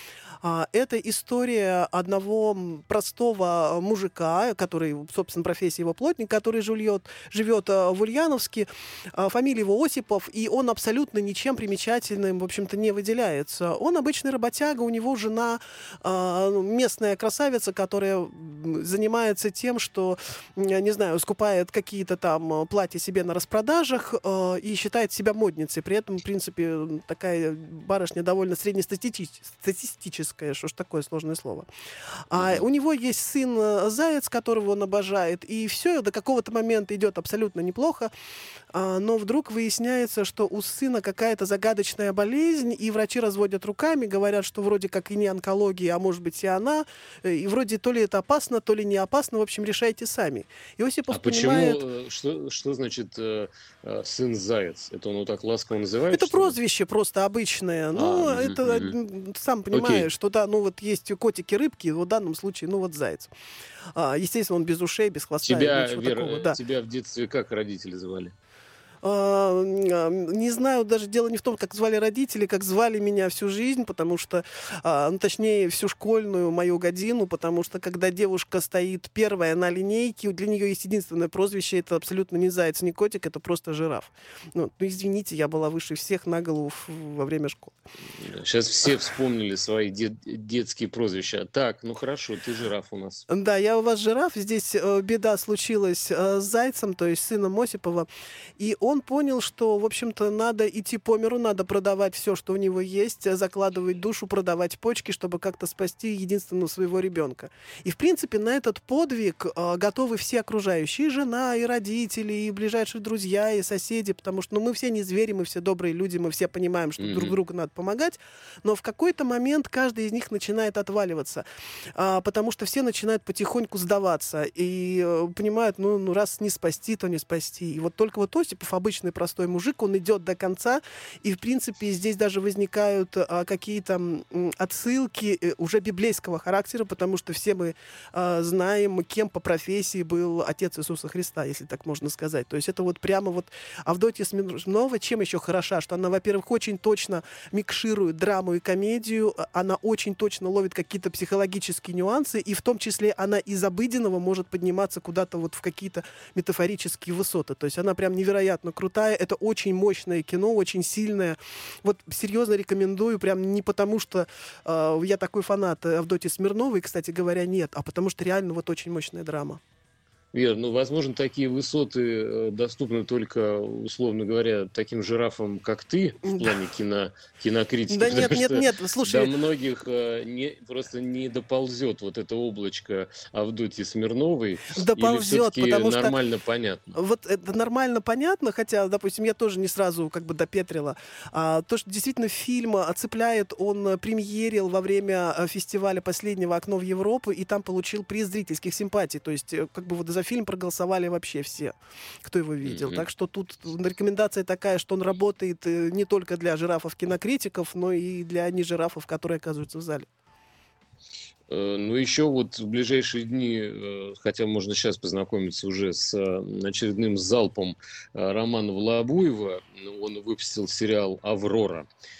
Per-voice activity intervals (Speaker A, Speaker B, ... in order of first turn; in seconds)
Speaker A: 0.4-31.7, 32.3-38.1, 38.7-51.8, 56.1-63.3, 64.0-66.6, 69.0-87.8, 93.3-98.1, 98.6-121.4, 122.0-169.6, 176.2-176.5, 177.9-179.3, 184.7-186.1, 186.9-210.1
Speaker B: 32.3-32.6, 51.1-56.5, 57.9-58.9, 59.7-60.1, 65.4-68.3, 88.2-93.3, 117.0-117.3, 170.3-186.9, 202.6-203.0, 211.5-221.9